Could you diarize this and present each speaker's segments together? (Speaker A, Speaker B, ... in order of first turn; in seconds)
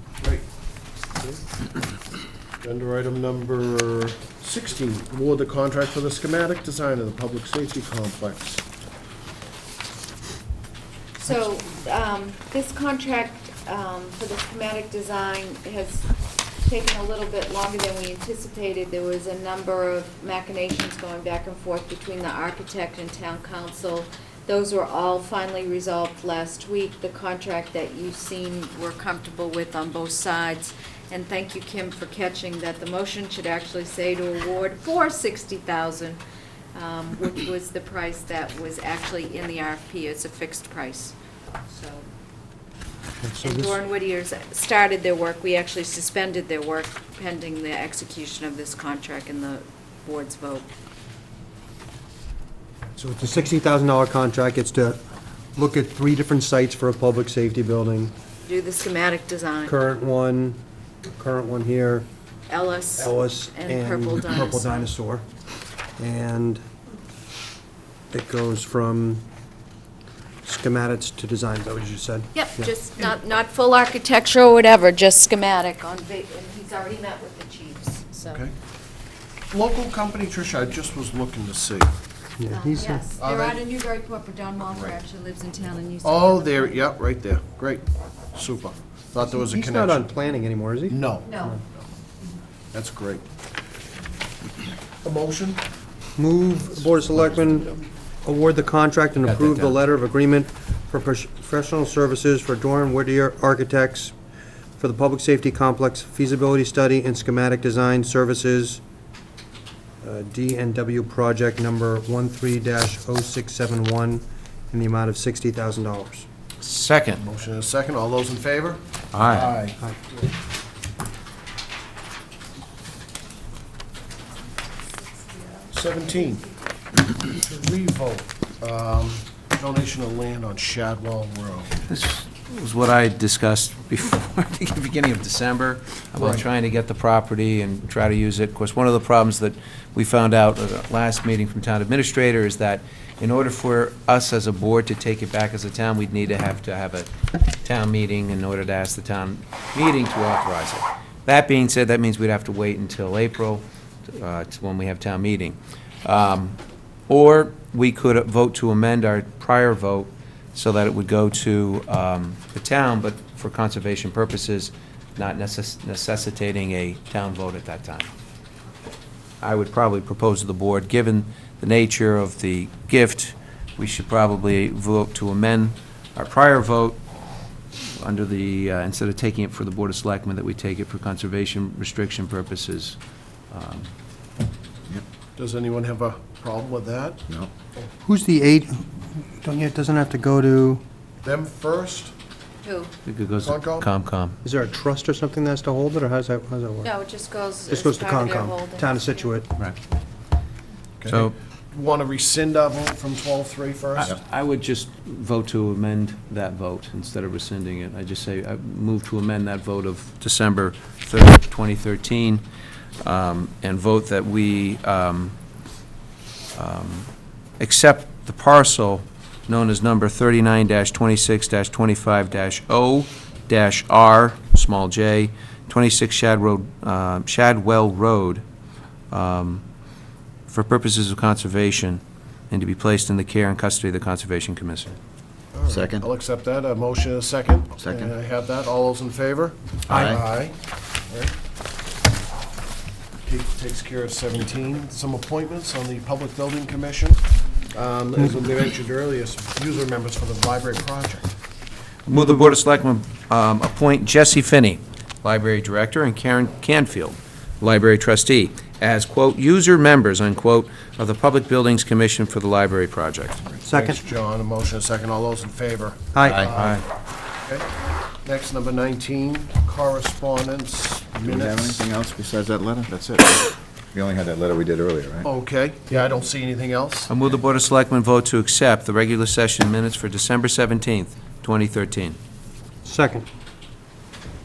Speaker A: 2.6-8.6, 79.5-81.9, 83.2-83.6, 84.7-85.0, 86.0-90.1, 90.9-91.8, 92.7-93.2, 95.0-95.6, 117.2-119.8, 125.7-126.5, 127.2-131.8, 136.2-136.4, 185.3-187.2, 191.2-192.1, 193.4-193.9, 201.0-204.1, 235.5-240.6, 241.1-241.3, 243.2-251.3, 263.4-266.8, 268.2-271.8, 275.2-277.1
Speaker B: 11.2-36.2, 36.7-41.1, 41.7-42.0, 43.4-50.7, 58.4-59.7, 62.5-64.9, 72.3-78.4, 82.5-86.8, 91.2-91.6, 125.2-125.7, 192.6-192.9, 196.8-199.3
Speaker C: 43.2-43.8, 53.0-55.0, 55.5-58.1, 59.6-60.6, 61.2-62.1, 63.0-65.2, 66.0-66.6, 68.1-69.2, 70.4-72.7, 82.4-83.0, 89.4-91.0, 96.2-104.1, 104.8-108.8, 110.0-116.2, 188.0-190.8, 194.4-196.9, 197.7-199.5, 263.6-264.0, 266.1-266.5, 282.8-283.2
Speaker D: 99.2-99.7, 116.6-117.2, 119.1-119.5, 131.9-147.1, 147.6-156.6, 157.1-168.1, 169.4-177.0, 178.0-182.9, 183.5-183.9, 193.1-194.3, 201.1-201.3, 203.9-212.4, 213.0-215.3, 216.5-217.1, 217.6-228.4, 229.1-229.6, 230.5-234.9, 252.1-263.4, 266.5-266.8, 277.1-282.2
Speaker E: 235.7-236.1, 237.8-238.1, 239.9-240.2, 266.2-266.5, 271.2-275.3